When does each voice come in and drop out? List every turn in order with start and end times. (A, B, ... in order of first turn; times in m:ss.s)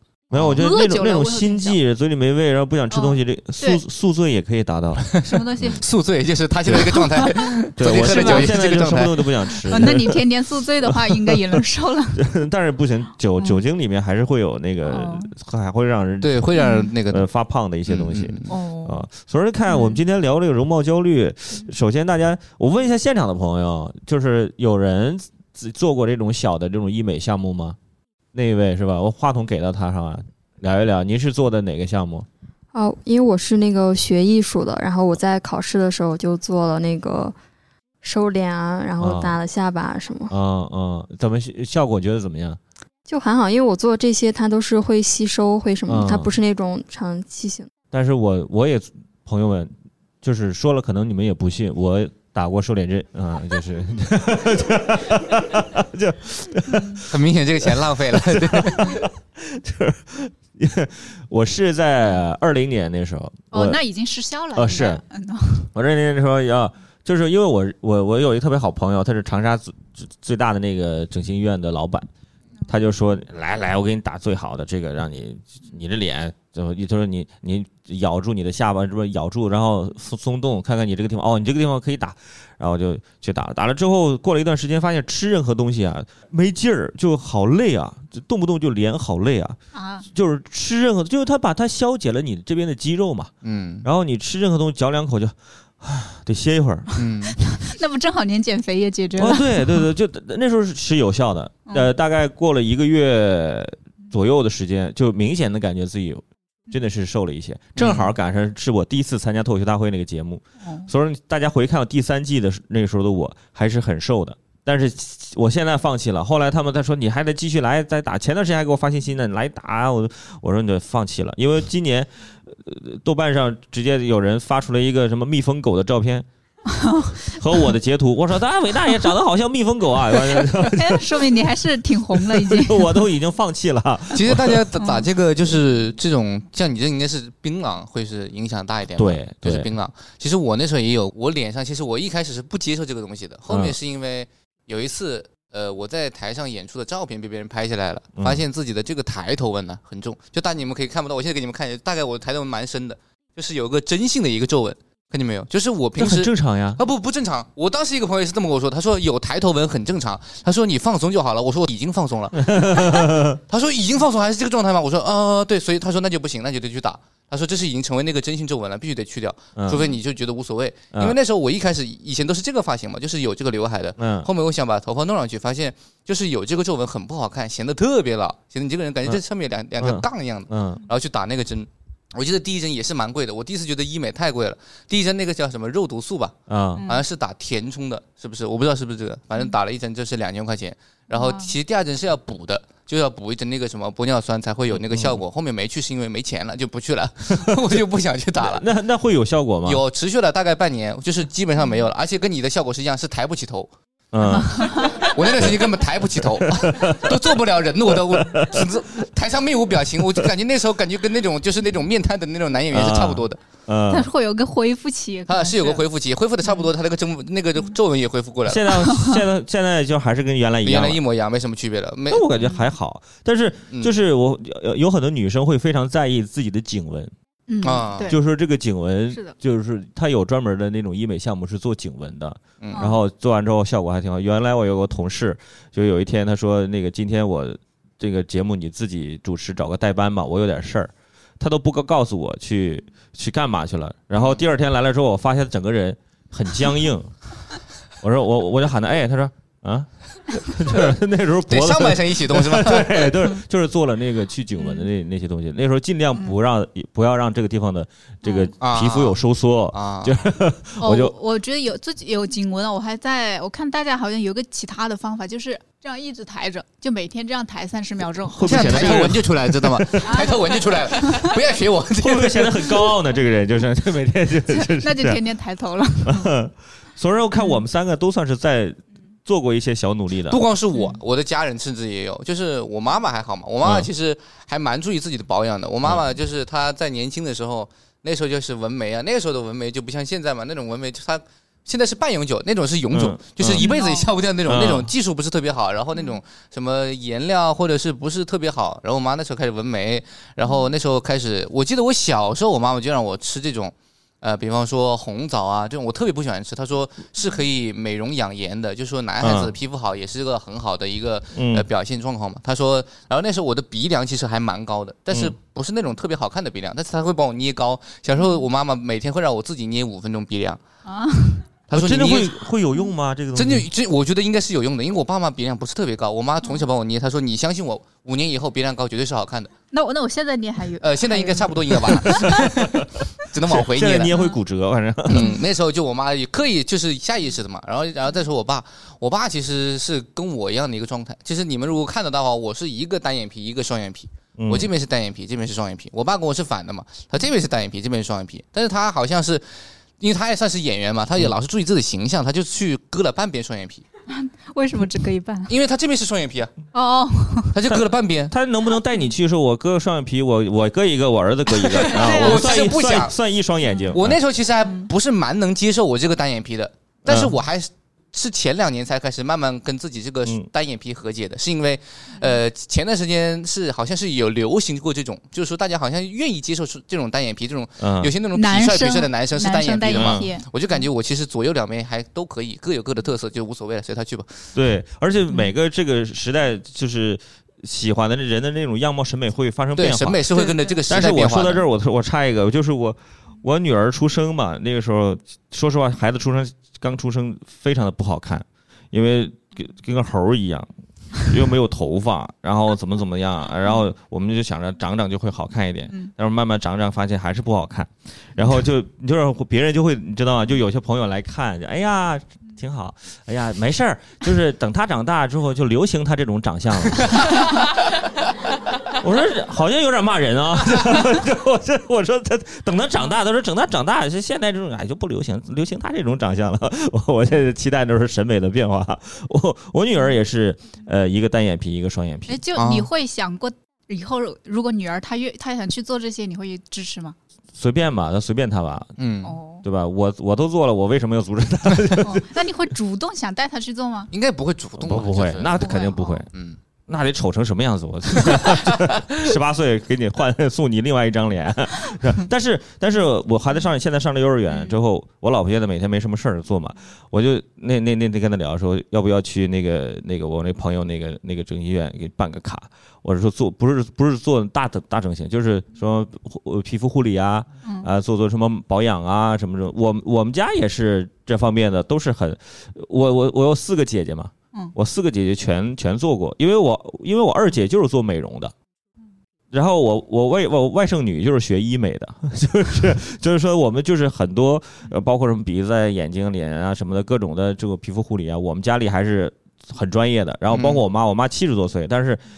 0:00.3-0:05.8 A
0:00.5-0:01.8 B
0:02.9-0:03.8 B
0:05.2-0:05.8 B
0:05.8-0:09.3 C
0:06.9-0:08.5 B
0:07.8-0:10.3 A
0:09.7-0:12.2 B
0:10.8-0:11.6 A
0:12.2-0:16.4 A
0:14.8-0:15.3 B
0:16.2-0:17.3 C
0:16.6-0:16.9 B
0:17.1-0:27.8 A
0:17.8-0:18.5 C
0:18.5-0:19.0 B
0:19.7-0:20.0 B
0:28.3-0:32.3 A
0:32.7-0:37.3 D
0:38.0-0:40.3 D
0:39.0-0:39.4 A
0:40.3-0:42.6 A
0:43.1-0:47.7 D
0:45.8-0:46.4 A
0:47.9-0:49.7 A
0:50.2-1:03.8 A
0:56.7-0:57.0 B
0:57.1-0:59.0 C
1:03.5-1:05.7 B
1:04.6-1:05.0 A
1:05.7-1:12.1 A
1:12.7-1:29.6 A
1:29.7-1:30.1 B
1:30.1-1:33.3 A
1:33.4-1:33.9 C
1:33.8-1:36.9 A
1:36.9-1:37.3 C
1:37.4-1:39.8 B
1:39.2-2:06.2 A
1:47.8-1:48.1 C
1:50.6-1:50.9 B
2:06.7-2:07.2 B
2:07.3-2:11.4 A
2:10.5-2:13.0 B
2:12.1-2:14.7 A
2:14.1-3:18.7 C
2:19.0-2:19.7 A
2:23.5-2:23.8 A
2:28.2-2:28.4 A
2:36.0-2:36.8 A
2:42.4-2:43.4 A
2:49.6-2:49.8 A
2:54.0-2:54.3 A
2:59.8-3:00.8 A
3:06.5-3:06.8 A
3:06.8-3:07.0 B
3:11.1-3:11.5 B
3:14.7-3:15.2 A
3:18.4-3:19.8 A
3:19.6-3:23.7 C
3:24.1-3:24.9 A
3:24.2-3:25.1 B
3:24.9-3:33.4 C
3:26.2-3:27.3 A
3:27.9-3:28.7 A
3:32.7-3:34.1 A
3:33.9-3:35.8 B
3:35.3-3:38.8 C
3:38.4-3:41.0 A
3:38.9-3:39.2 B
3:40.6-3:42.3 C
3:42.1-3:47.1 A
3:42.4-3:42.6 B
3:47.5-3:48.2 B
3:47.6-3:48.1 C
3:48.1-4:07.2 A
3:52.6-3:52.9 C
4:08.0-4:21.1 A
4:11.5-4:13.4 C
4:14.6-4:14.8 B
4:18.2-4:18.5 B
4:18.6-4:19.2 C
4:19.7-4:20.1 C
4:20.8-4:29.0 B
4:28.2-4:30.3 A
4:28.4-4:32.7 C
4:30.0-4:30.3 B
4:31.0-4:31.3 B
4:32.0-4:35.2 A
4:34.5-4:36.3 B
4:36.0-4:40.4 A
4:40.3-5:20.6 C
4:43.6-4:43.9 A
4:52.9-4:53.7 A
4:53.6-4:54.1 B
4:54.4-4:54.9 A
5:09.2-5:09.5 A
5:11.3-5:11.7 A
5:20.8-5:21.4 B
5:21.7-5:22.4 C
5:21.7-5:23.7 A
5:23.3-5:29.5 C
5:29.7-5:32.4 B
5:30.8-5:34.1 C
5:32.1-5:32.8 A
5:33.4-5:35.4 A
5:34.1-5:34.4 B
5:35.1-5:53.8 C
5:44.4-5:44.7 A
5:54.1-5:55.5 B
5:55.5-5:56.5 C
5:56.7-5:57.5 B
5:57.5-5:58.3 C
5:57.7-6:04.2 A
6:01.6-6:03.2 C
6:01.9-6:02.4 B
6:03.9-6:24.3 C
6:07.1-6:07.4 A
6:17.8-6:18.1 A
6:18.3-6:20.4 B
6:19.9-6:20.2 A
6:24.6-6:30.2 A
6:29.8-6:31.6 C
6:30.4-6:30.7 B
6:30.9-6:40.7 A
6:41.2-6:57.6 A
6:58.8-7:12.4 A
7:12.3-7:17.2 B
7:12.6-7:12.9 C
7:17.6-7:18.9 A
7:19.0-7:19.4 C
7:19.2-7:19.6 B
7:19.6-7:22.2 A
7:22.0-7:24.1 B
7:24.1-7:25.6 C
7:24.8-7:26.3 A
7:25.6-7:26.2 B
7:26.3-7:26.6 C
7:26.9-7:58.5 A
7:47.6-7:47.9 B
7:59.5-8:12.2 A
8:10.5-8:10.8 C